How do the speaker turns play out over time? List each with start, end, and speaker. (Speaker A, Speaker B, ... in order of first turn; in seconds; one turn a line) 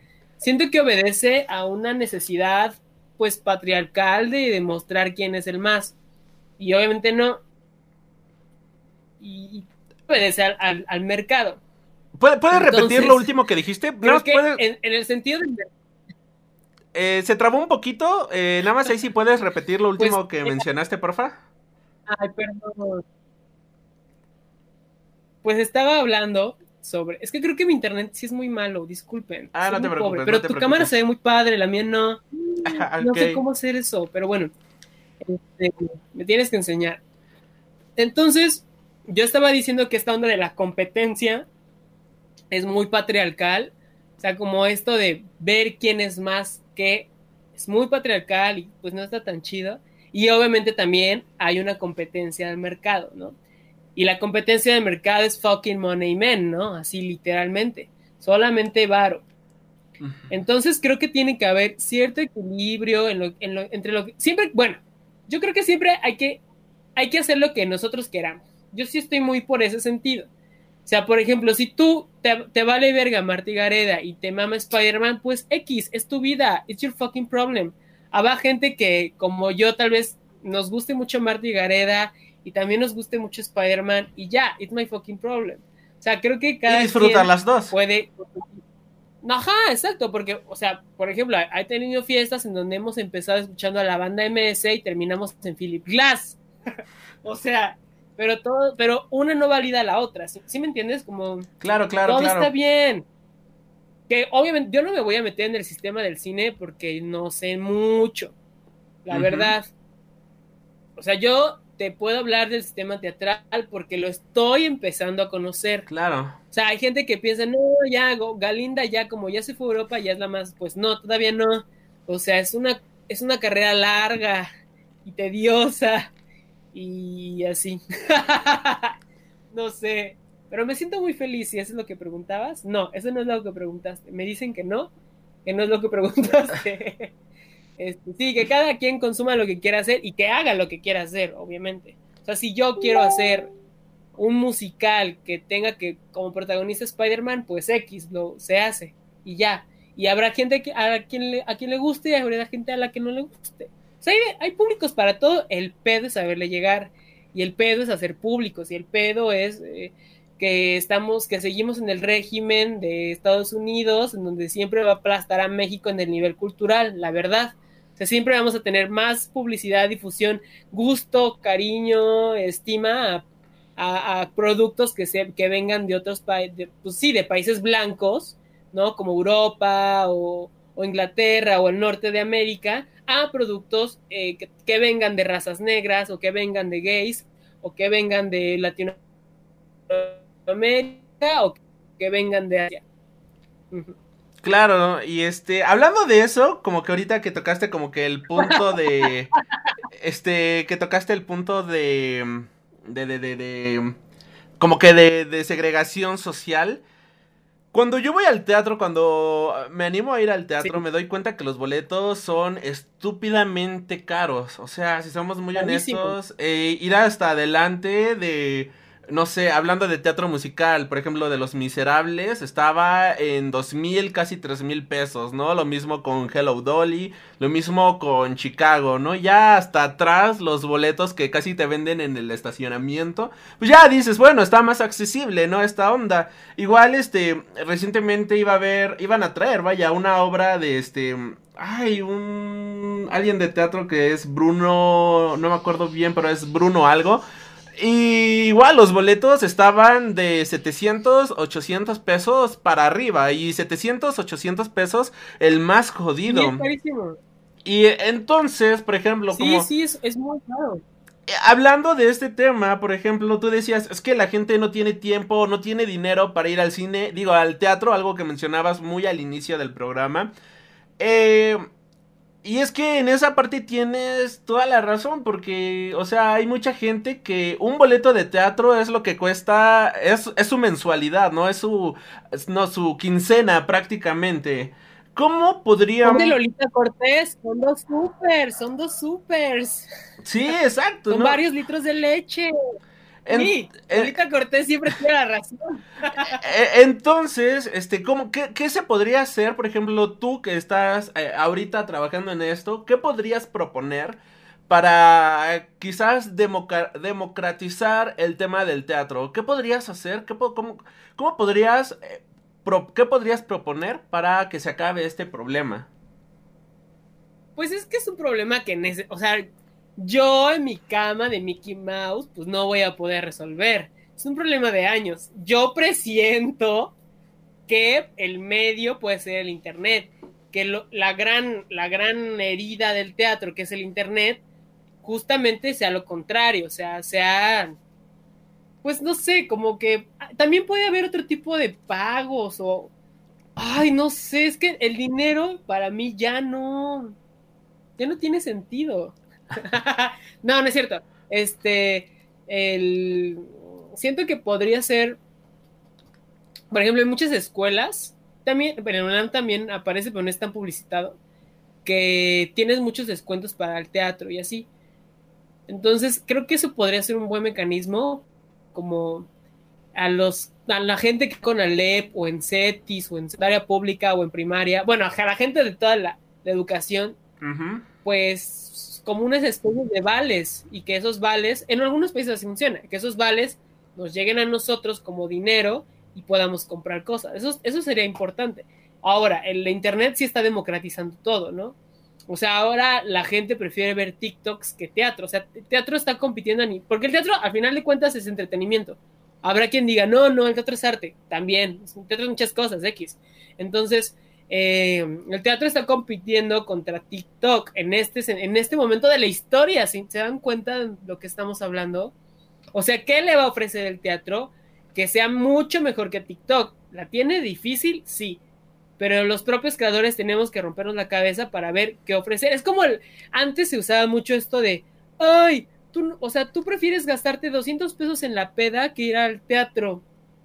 Speaker A: 0.4-5.9
Speaker A: 6.6-7.4
Speaker A: 9.2-11.6
Speaker B: 12.2-14.6
Speaker A: 12.5-13.3
Speaker A: 14.0-15.7
Speaker B: 16.9-21.4
Speaker A: 20.0-20.6
Speaker A: 22.1-23.0
Speaker A: 25.4-34.5
Speaker B: 29.5-30.9
Speaker B: 32.6-33.4
Speaker A: 35.2-37.0
Speaker A: 38.0-41.5
Speaker A: 42.5-53.4
Speaker A: 54.0-59.2
Speaker A: 60.3-66.4
Speaker A: 67.0-70.3
Speaker A: 70.8-88.6
Speaker B: 86.7-87.7
Speaker A: 89.2-96.4
Speaker A: 97.2-101.5
Speaker B: 101.6-102.5
Speaker A: 102.0-103.0
Speaker A: 104.1-108.3
Speaker A: 109.0-109.7
Speaker B: 109.1-109.5
Speaker A: 111.0-115.9
Speaker B: 115.9-116.4
Speaker A: 116.5-124.5
Speaker A: 125.0-126.1
Speaker A: 126.7-128.9
Speaker A: 129.5-134.9
Speaker A: 135.4-137.1
Speaker A: 137.8-143.5
Speaker A: 144.2-189.0
Speaker A: 189.9-192.8
Speaker A: 193.7-193.9
Speaker B: 194.4-199.3
Speaker B: 199.9-203.9
Speaker B: 204.6-206.8
Speaker B: 207.7-247.2
Speaker A: 215.6-216.1
Speaker B: 247.8-256.7
Speaker A: 256.3-257.2
Speaker B: 257.6-259.7
Speaker A: 259.3-260.8
Speaker B: 261.3-270.3
Speaker B: 271.0-271.6
Speaker B: 272.4-286.4
Speaker A: 286.0-289.9
Speaker B: 290.2-291.4
Speaker A: 291.1-292.5
Speaker B: 293.2-294.1
Speaker A: 293.3-296.4
Speaker B: 296.4-315.9
Speaker A: 317.6-326.9
Speaker A: 327.7-334.4
Speaker A: 335.0-337.8
Speaker A: 338.8-342.9
Speaker A: 343.6-347.1
Speaker A: 348.0-355.2
Speaker A: 356.7-361.2
Speaker A: 361.8-364.7
Speaker A: 365.7-369.3
Speaker A: 369.9-377.2
Speaker B: 377.4-377.9
Speaker A: 378.0-391.8
Speaker A: 392.3-412.1
Speaker A: 412.7-418.4
Speaker A: 419.0-430.0